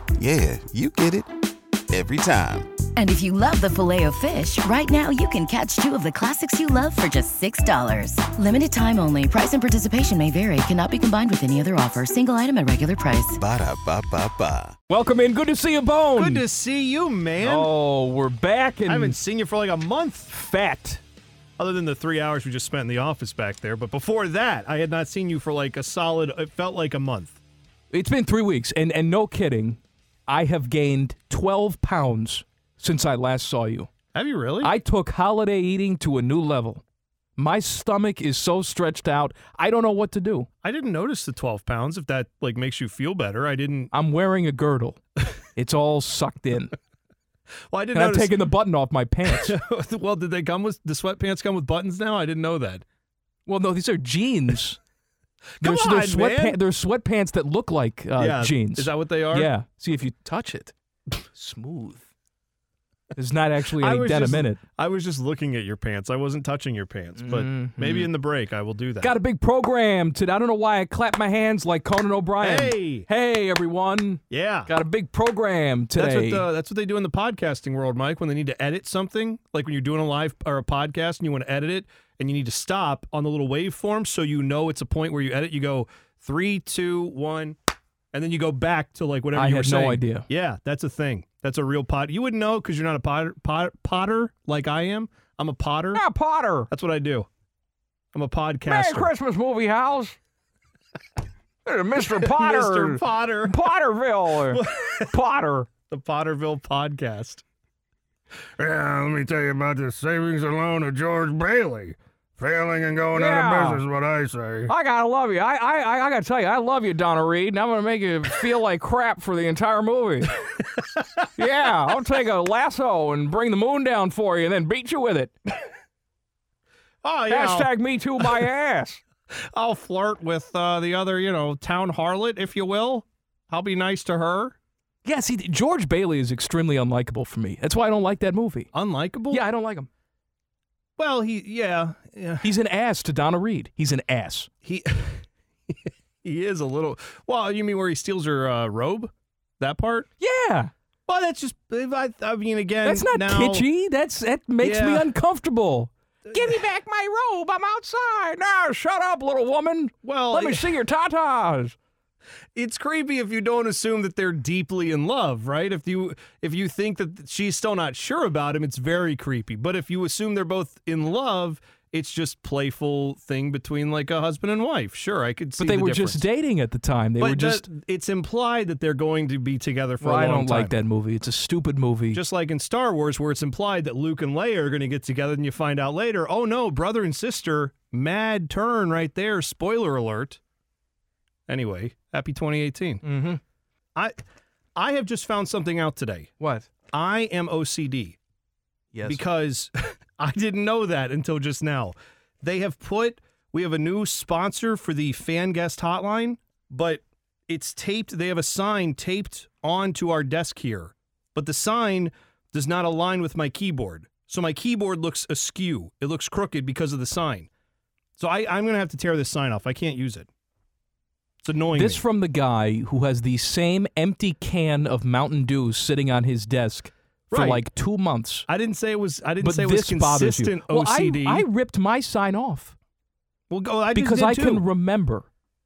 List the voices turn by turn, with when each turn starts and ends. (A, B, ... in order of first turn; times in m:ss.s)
0:00.2-0:01.3 A
0:01.9-0:02.8 A
0:03.0-0:13.4 B
0:13.4-0:14.8 A
0:14.9-0:16.4 C
0:16.2-0:17.7 D
0:17.4-0:19.2 C
0:18.9-0:20.3 D
0:20.3-0:21.0 C
0:21.6-0:27.4 D
0:27.9-0:33.9 C
0:34.1-0:34.7 D
0:34.6-0:36.8 C
0:37.4-0:40.5 C
0:40.6-0:43.9 D
0:43.9-0:45.0 C
0:45.6-0:46.7 C
0:47.7-0:48.3 D
0:47.9-0:49.6 C
0:49.2-0:52.8 D
0:53.5-0:54.8 C
0:55.6-0:56.6 D
0:55.6-1:00.7 C
0:58.2-0:59.5 D
1:01.3-1:02.0 C
1:03.1-1:04.6 C
1:03.8-1:09.1 D
1:07.2-1:08.1 C
1:09.0-1:16.4 C
1:12.4-1:13.1 D
1:14.3-1:14.7 D
1:16.0-1:27.6 D
1:28.1-1:36.0 D
1:29.3-1:30.3 C
1:35.9-1:36.7 C
1:36.7-1:37.3 D
1:38.1-1:39.1 D
1:38.7-1:40.2 C
1:41.7-1:45.7 C
1:42.2-1:43.6 D
1:44.5-1:45.1 D
1:45.9-1:47.4 D
1:48.6-1:54.7 E
1:53.1-1:53.8 C
1:54.7-2:00.4 C
2:01.4-2:05.3 C
2:07.0-2:07.7 D
2:07.3-2:09.0 C
2:09.4-2:14.6 D
2:15.0-2:18.7 C
2:18.7-2:19.4 D
2:19.3-2:19.9 C
2:21.0-2:22.5 D
2:22.4-2:24.5 C
2:24.6-2:30.1 D
2:30.2-2:30.7 C
2:31.1-2:33.7 D
2:32.8-2:41.8 C
2:34.6-2:35.1 D
2:36.3-2:36.6 D
2:40.0-2:40.8 D
2:42.6-2:56.3 D
2:55.6-2:57.7 C
2:57.2-3:00.8 D
3:00.0-3:02.2 C
3:02.1-3:10.4 D
3:11.5-3:13.0 D
3:13.0-3:13.4 C
3:14.8-3:16.3 D
3:16.4-3:16.7 C
3:16.9-3:18.2 D
3:18.9-3:19.2 C
3:19.0-3:37.5 D
3:38.2-3:40.3 D
3:41.4-3:42.0 D
3:41.7-3:48.4 C
3:47.3-3:47.6 D
3:48.5-3:51.4 D
3:49.4-3:52.8 C
3:53.5-3:54.6 D
3:53.9-3:55.2 C